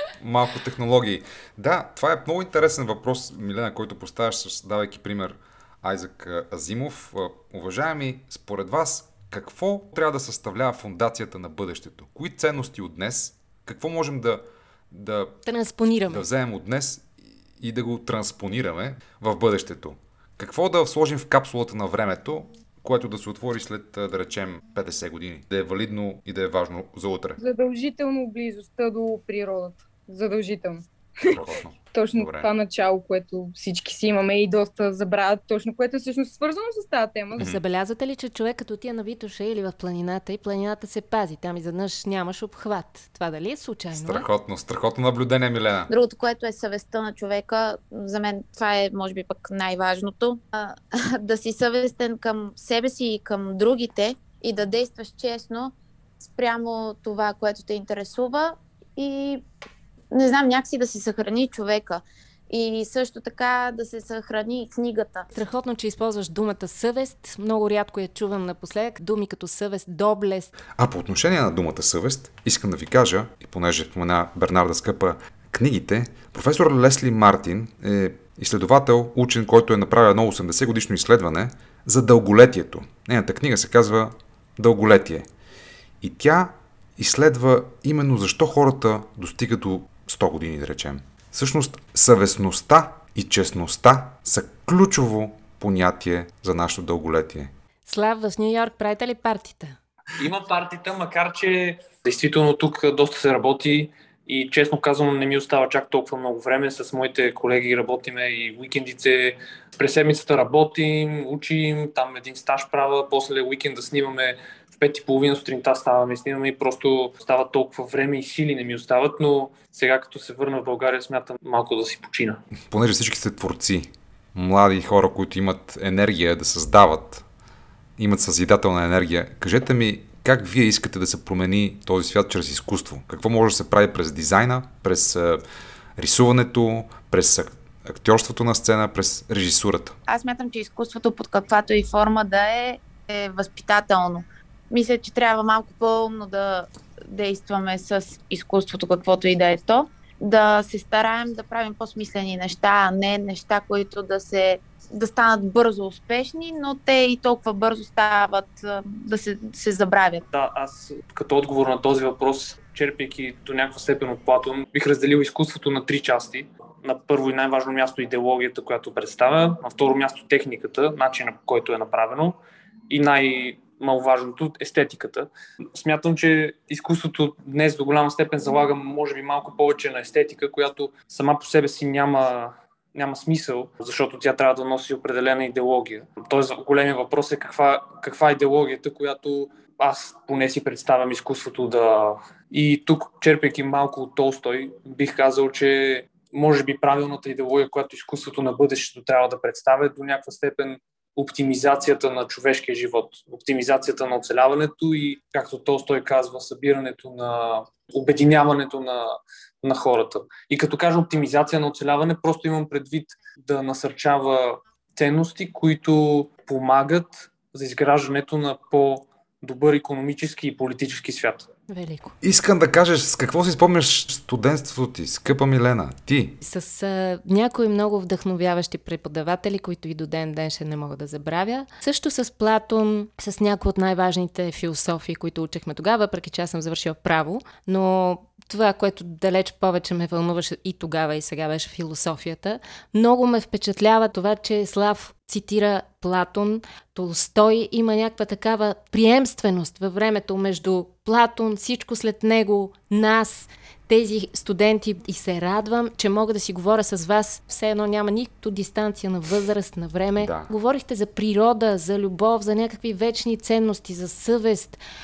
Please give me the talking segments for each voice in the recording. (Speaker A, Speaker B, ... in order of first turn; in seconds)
Speaker A: 0.2-15.4, 16.1-27.4, 31.2-32.5, 37.4-37.6, 43.9-45.9, 70.8-85.3, 86.0-97.5, 122.7-127.2, 128.0-135.4, 136.0-140.0, 222.2-226.4, 260.2-260.5
Speaker B: 15.4-16.2, 37.5-44.2, 65.3-70.5, 97.9-99.8, 221.8-222.1, 226.4-264.8
Speaker C: 27.4-31.4, 31.9-37.4
Speaker D: 45.9-59.4, 60.1-65.3, 140.1-160.2
Speaker E: 100.2-122.4, 160.3-172.4, 172.9-221.5